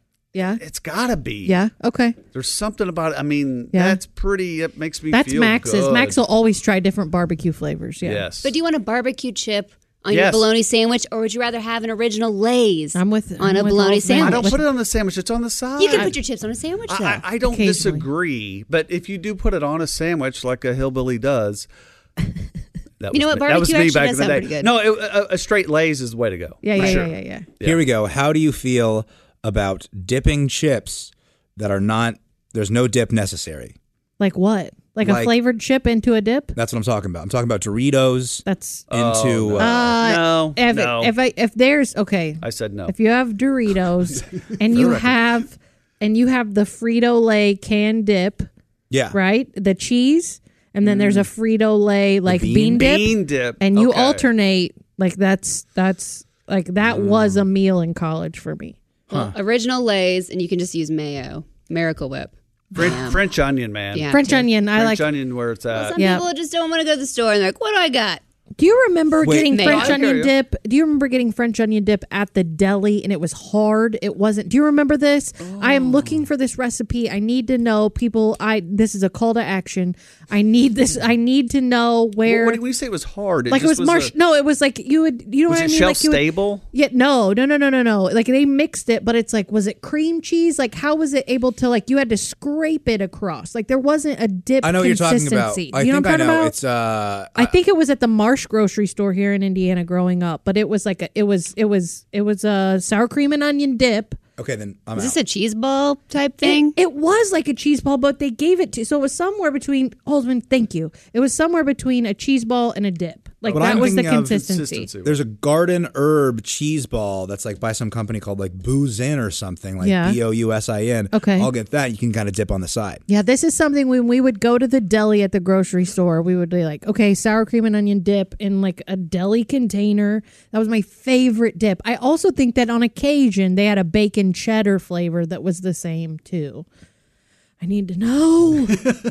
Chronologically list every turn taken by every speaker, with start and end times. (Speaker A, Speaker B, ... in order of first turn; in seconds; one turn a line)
Speaker A: 0.3-0.6
Speaker B: 0.6-1.6
Speaker A: 1.4-2.2
Speaker B: 2.3-6.2
Speaker A: 3.7-4.0
Speaker A: 5.1-8.3
Speaker B: 8.0-8.5
Speaker C: 8.4-14.5
Speaker B: 10.1-10.5
Speaker A: 12.9-14.7
Speaker B: 14.2-16.2
Speaker C: 15.8-17.2
Speaker B: 16.9-21.7
Speaker A: 17.5-18.1
Speaker B: 23.0-27.8
Speaker C: 23.1-24.8
Speaker A: 26.6-27.5
Speaker D: 27.6-33.8
Speaker A: 34.2-36.5
Speaker D: 35.0-35.4
Speaker D: 36.5-40.0
Speaker A: 38.5-38.9
Speaker B: 38.9-41.1
Speaker A: 39.6-48.5
Speaker B: 42.4-43.0
Speaker B: 44.7-45.1
Speaker D: 48.9-49.2
Speaker A: 49.1-58.8
Speaker B: 50.8-51.3
Speaker D: 52.3-52.9
Speaker B: 52.6-54.3
Speaker B: 56.9-57.4
Speaker D: 59.1-59.4
Speaker C: 59.1-63.3
Speaker B: 62.8-66.0
Speaker C: 63.9-64.3
Speaker A: 64.1-65.1
Speaker C: 65.7-68.2
Speaker A: 66.0-66.2
Speaker A: 68.6-82.6
Speaker D: 69.2-69.6
Speaker C: 69.5-70.0
Speaker B: 69.6-70.3
Speaker B: 75.4-76.3
Speaker B: 82.2-84.1
Speaker A: 83.5-96.5
Speaker B: 85.5-86.7
Speaker D: 94.6-97.6
Speaker A: 97.3-104.2
Speaker D: 104.4-105.2
Speaker C: 105.0-106.8
Speaker A: 106.4-114.9
Speaker B: 113.5-115.2
Speaker D: 113.5-114.5
Speaker D: 115.0-123.0
Speaker A: 119.8-120.2
Speaker A: 121.1-121.5
Speaker A: 123.1-136.7
Speaker A: 137.6-138.8